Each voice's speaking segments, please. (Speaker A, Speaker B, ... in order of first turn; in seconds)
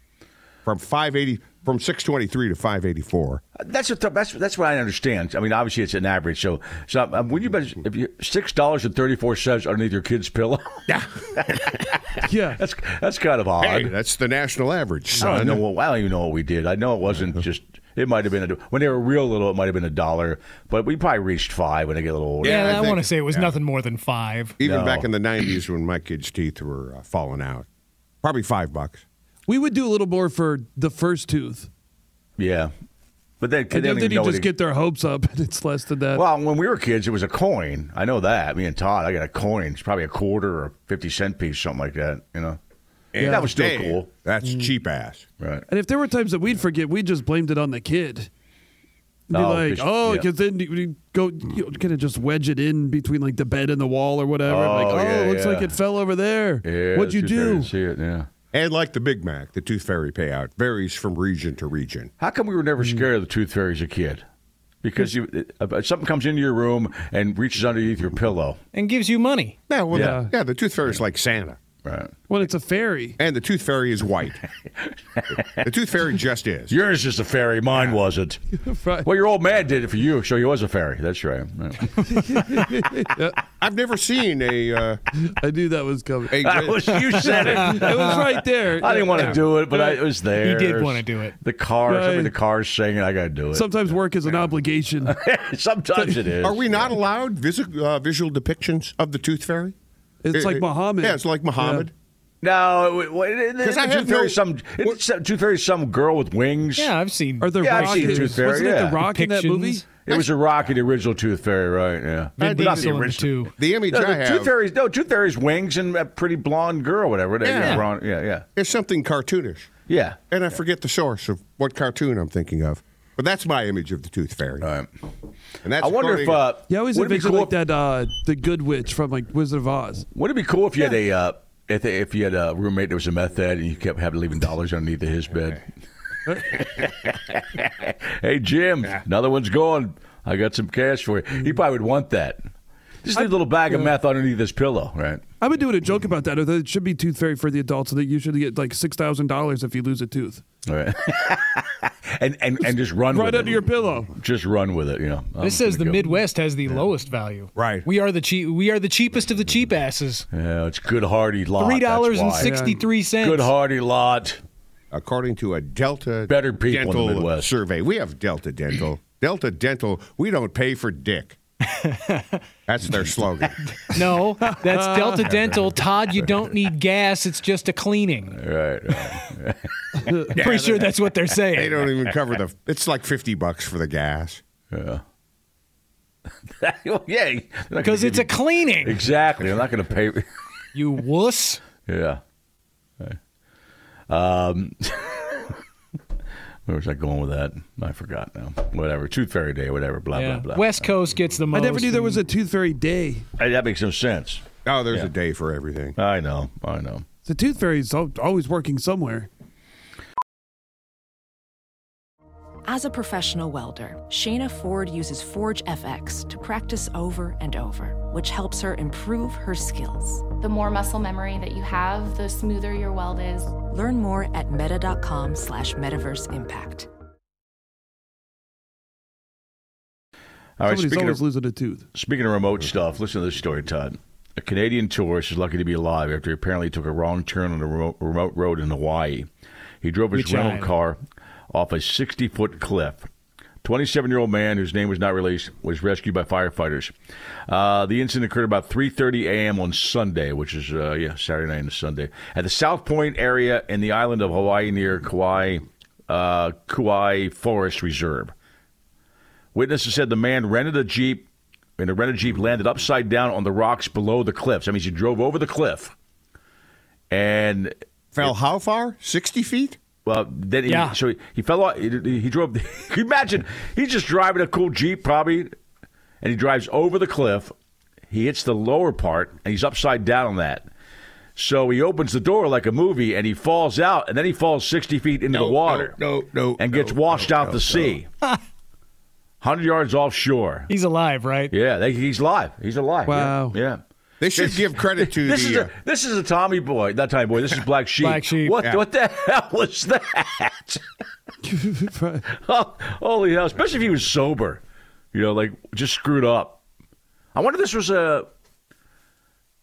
Speaker A: 0.7-3.4, 13.6-15.6, 22.4-23.6, 24.6-27.7, 28.2-29.1, 43.1-45.2, 58.5-62.1, 69.7-71.6, 73.2-74.4, 75.6-76.8, 83.6-85.0, 86.3-87.4, 96.4-99.8, 100.3-101.9, 103.6-105.0, 110.1-110.4, 112.4-112.9, 113.6-114.5, 117.4-117.9, 118.6-119.7, 120.3-124.7, 125.6-126.5, 157.6-157.9, 164.9-171.4, 172.7-173.6, 180.4-180.9, 181.6-184.4, 204.7-206.0, 268.1-269.8, 285.3-288.0, 294.2-295.7
Speaker B: 3.6-11.7, 12.6-13.9, 15.2-23.0, 24.6-25.1, 32.4-32.7, 33.4-34.5, 36.1-42.6, 43.2-44.1, 45.4-45.6, 49.3-50.3, 54.5-55.8, 56.6-58.3, 62.2-64.2, 64.8-68.6, 69.9-70.2, 71.8-72.1, 75.1-75.7, 76.7-78.4, 79.0-82.7, 86.4-94.5, 95.0-96.9, 102.4-106.9, 107.6-109.0, 110.0-118.5, 119.9-120.2, 124.6-124.9, 125.8-127.5, 130.1-135.7, 136.5-142.4, 143.0-145.2, 150.7-153.6, 154.2-156.1, 160.3-162.6, 163.2-164.4, 166.3-167.5, 178.3-180.2, 184.7-185.0, 186.5-190.2, 191.9-192.2, 194.1-195.6, 196.7-200.9, 203.4-205.1, 206.0-207.1, 230.6-231.2, 231.9-239.3, 239.8-241.0, 241.5-243.1, 243.6-246.9, 247.5-258.3, 259.6-265.9, 267.1-268.3, 270.1-275.5, 276.2-277.5, 278.1-280.7, 281.4-286.0, 286.6-288.1, 289.4-290.7, 291.5-300.8, 302.3-304.6, 305.1-306.6, 307.4-308.3
Speaker C: 12.2-12.6, 29.5-31.7, 33.7-36.2, 43.2-43.5, 45.7-48.3, 49.3-57.7, 62.8-63.1, 69.9-70.3, 72.3-73.2, 78.6-79.1, 82.0-83.4, 85.2-86.5, 87.1-90.0, 91.9-92.3, 93.5-95.2, 96.0-96.3, 100.2-101.9, 107.4-109.9, 126.7-130.1, 136.3-136.6, 143.2-143.9, 145.4-150.4, 153.1-154.1, 162.4-162.8, 174.4-175.2, 180.0-180.3, 201.5-203.2, 207.3-209.3, 230.6-231.8, 293.1-293.6, 301.5-302.2
Speaker D: 22.4-24.6, 68.7-69.6, 90.3-91.3, 106.8-108.4, 109.0-109.8, 112.4-113.5, 117.6-117.9, 155.4-160.3, 161.6-163.5, 171.8-172.4, 173.9-178.4, 180.4-181.8, 187.8-189.1, 190.7-191.6, 200.1-202.2, 240.1-240.7, 270.7-271.0, 290.7-291.5, 298.0-298.6
Speaker E: 212.7-220.3, 223.6-226.9
Speaker F: 220.4-223.6